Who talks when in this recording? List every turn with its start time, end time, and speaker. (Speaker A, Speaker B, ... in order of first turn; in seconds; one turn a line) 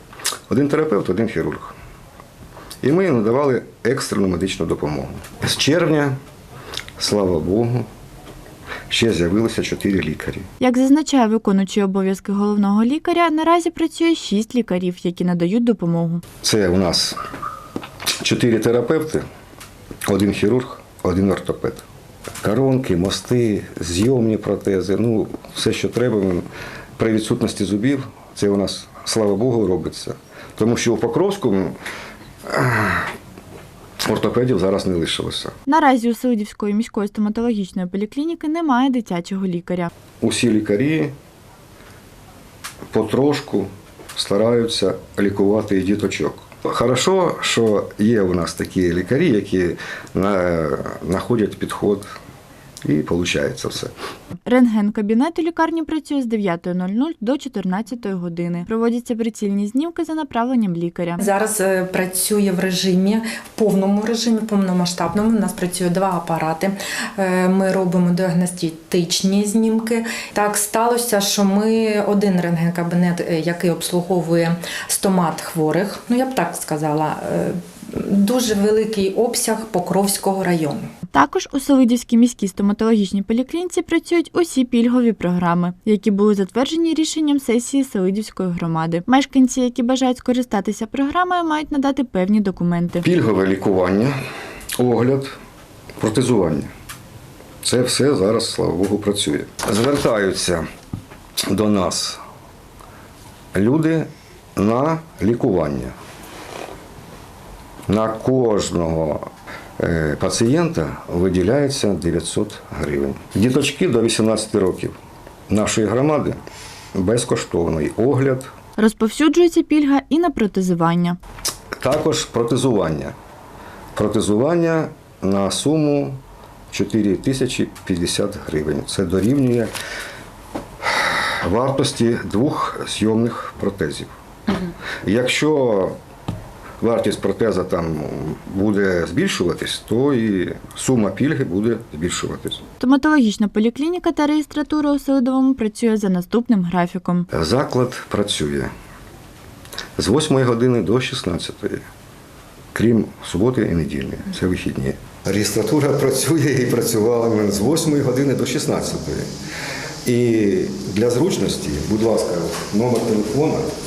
Speaker A: 0.5-1.8
Speaker A: 2.8-6.2
Speaker A: 7.0-7.9
Speaker A: 8.9-10.5
Speaker B: 10.6-16.2
Speaker A: 16.4-17.2
Speaker A: 18.2-19.2
Speaker A: 20.1-21.8
Speaker A: 22.4-26.4
Speaker A: 27.0-31.8
Speaker A: 32.5-33.1
Speaker A: 34.0-35.5
Speaker B: 35.7-39.9
Speaker A: 40.2-41.1
Speaker A: 42.9-52.0
Speaker A: 52.8-53.9
Speaker B: 54.5-61.2
Speaker C: 61.2-80.9
Speaker B: 81.1-93.0
Speaker A: 93.0-94.2
Speaker A: 94.8-95.4
Speaker A: 96.0-96.7
Speaker A: 97.6-100.7
Speaker A: 101.5-102.2
Speaker A: 103.5-106.0
Speaker A: 107.9-109.3
Speaker A: 109.8-115.0
Speaker A: 115.5-116.4
Speaker A: 117.0-118.5
Speaker B: 118.8-121.2
Speaker A: 121.8-123.2
Speaker A: 124.0-126.2
Speaker A: 126.7-129.7
Speaker A: 130.8-135.9
Speaker A: 136.8-142.6
Speaker B: 142.8-147.3
Speaker A: 147.3-148.7
Speaker A: 150.0-151.8
Speaker A: 152.7-159.3
Speaker A: 160.1-163.7